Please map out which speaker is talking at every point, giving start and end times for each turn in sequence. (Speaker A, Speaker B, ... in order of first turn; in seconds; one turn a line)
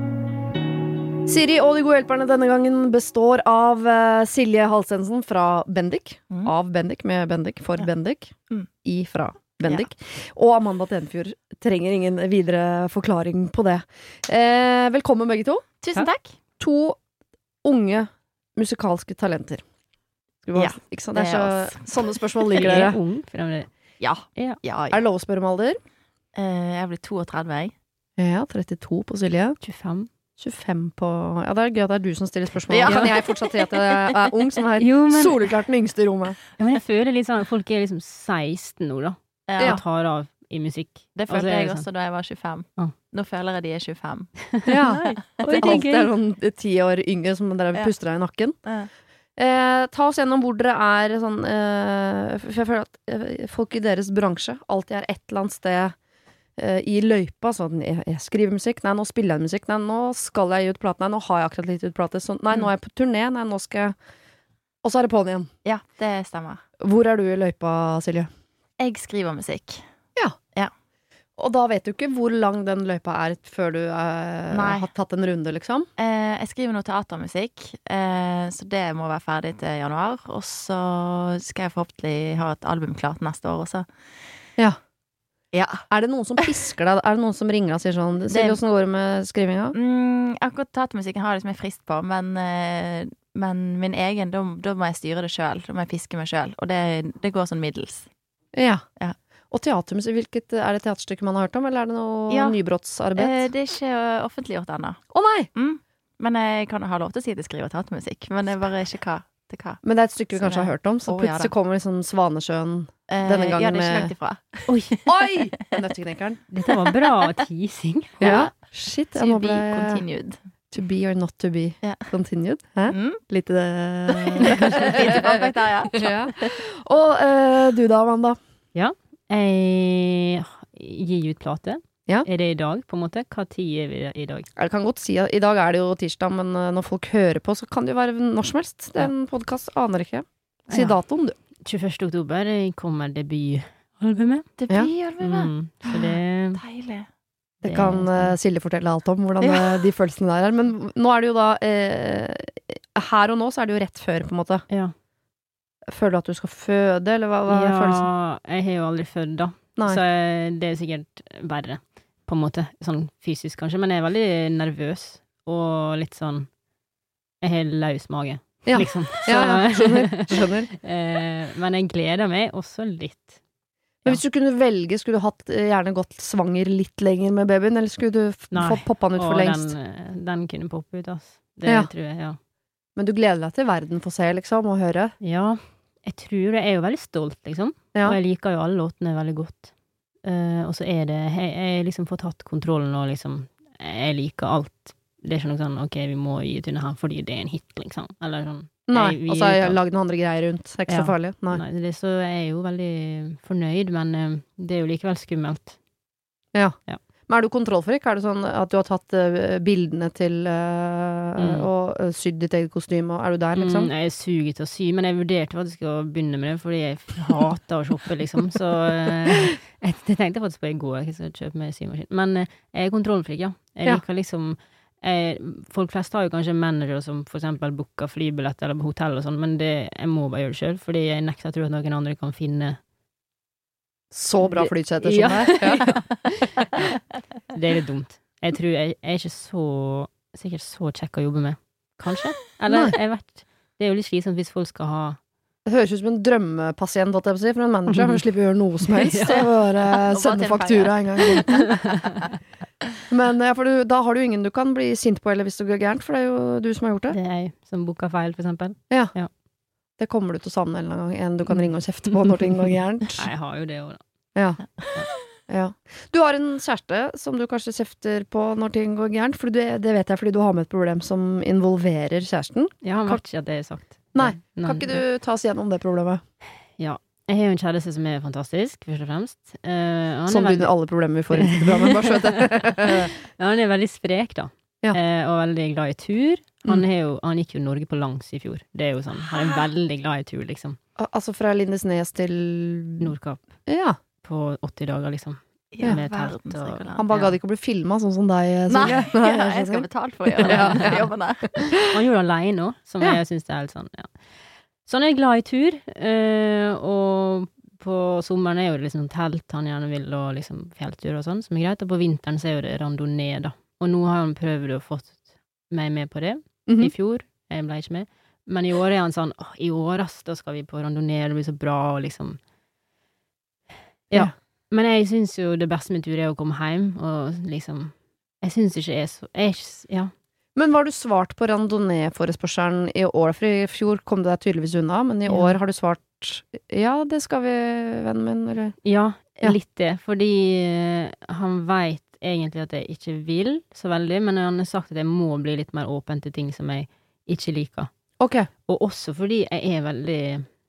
Speaker A: 1.3-8.3
Speaker A: 8.8-15.7
Speaker B: 15.8-16.3
Speaker A: 16.6-17.0
Speaker A: 17.6-19.6
Speaker A: 20.4-23.0
Speaker B: 20.6-22.0
Speaker C: 22.5-23.7
Speaker B: 24.0-25.0
Speaker A: 24.9-25.8
Speaker B: 26.4-27.7
Speaker A: 28.2-29.6
Speaker C: 29.6-30.1
Speaker A: 30.4-36.4
Speaker B: 32.7-34.1
Speaker C: 32.9-33.1
Speaker C: 34.8-35.4
Speaker C: 36.6-41.9
Speaker B: 39.5-39.8
Speaker B: 41.2-44.3
Speaker C: 44.5-46.1
Speaker A: 44.7-48.6
Speaker B: 45.4-45.8
Speaker B: 48.6-48.9
Speaker A: 49.4-56.0
Speaker A: 56.6-64.0
Speaker A: 64.8-65.5
Speaker B: 65.7-66.6
Speaker A: 66.8-68.3
Speaker B: 68.8-69.8
Speaker A: 71.4-75.9
Speaker B: 74.5-74.9
Speaker B: 76.0-83.9
Speaker B: 85.5-85.8
Speaker A: 85.9-89.8
Speaker B: 88.3-88.6
Speaker B: 89.7-98.1
Speaker A: 98.5-98.8
Speaker A: 99.5-103.5
Speaker B: 102.3-102.6
Speaker B: 103.2-105.0
Speaker A: 105.1-105.5
Speaker B: 105.5-109.8
Speaker A: 109.8-114.1
Speaker B: 110.4-111.5
Speaker B: 113.1-115.0
Speaker C: 114.7-115.0
Speaker A: 115.1-116.4
Speaker C: 116.5-118.5
Speaker A: 118.2-120.0
Speaker B: 119.1-120.4
Speaker A: 120.7-128.4
Speaker B: 121.8-122.1
Speaker B: 122.9-123.2
Speaker B: 124.1-126.6
Speaker C: 128.8-134.5
Speaker A: 134.6-141.4
Speaker C: 140.7-141.0
Speaker C: 141.6-144.5
Speaker B: 144.6-147.1
Speaker C: 145.2-146.6
Speaker A: 147.6-154.6
Speaker C: 147.6-148.3
Speaker B: 149.4-149.7
Speaker A: 155.9-158.1
Speaker C: 157.5-166.5
Speaker C: 167.4-173.4
Speaker A: 168.7-170.7
Speaker A: 174.1-179.7
Speaker C: 178.5-182.4
Speaker A: 183.0-185.1
Speaker C: 185.2-189.7
Speaker C: 190.2-199.8
Speaker A: 198.9-201.6
Speaker C: 200.9-205.8
Speaker A: 207.3-213.9
Speaker C: 211.4-211.7
Speaker C: 213.6-232.8
Speaker A: 234.1-236.0
Speaker C: 234.4-236.7
Speaker C: 237.5-245.2
Speaker A: 242.7-242.9
Speaker A: 245.7-251.7
Speaker C: 247.9-248.2
Speaker C: 248.9-249.5
Speaker B: 249.8-252.2
Speaker C: 251.8-252.1
Speaker A: 253.1-257.2
Speaker C: 257.1-259.3
Speaker A: 260.0-263.3
Speaker C: 263.2-264.0
Speaker A: 264.4-264.6
Speaker A: 265.5-273.2
Speaker C: 272.8-275.0
Speaker A: 274.1-276.2
Speaker C: 276.8-280.7
Speaker A: 280.3-283.1
Speaker C: 281.3-290.8
Speaker A: 291.0-293.1
Speaker C: 293.0-293.4
Speaker A: 293.7-294.0
Speaker C: 294.2-297.3
Speaker B: 295.7-297.1
Speaker A: 297.0-301.1
Speaker B: 298.7-301.7
Speaker C: 300.4-301.0
Speaker A: 301.6-302.0
Speaker C: 301.9-304.1
Speaker C: 304.9-322.4
Speaker A: 316.7-316.9
Speaker C: 324.1-330.1
Speaker A: 330.6-338.8
Speaker C: 335.3-335.6
Speaker C: 338.8-347.9
Speaker A: 348.2-348.5
Speaker C: 348.7-350.5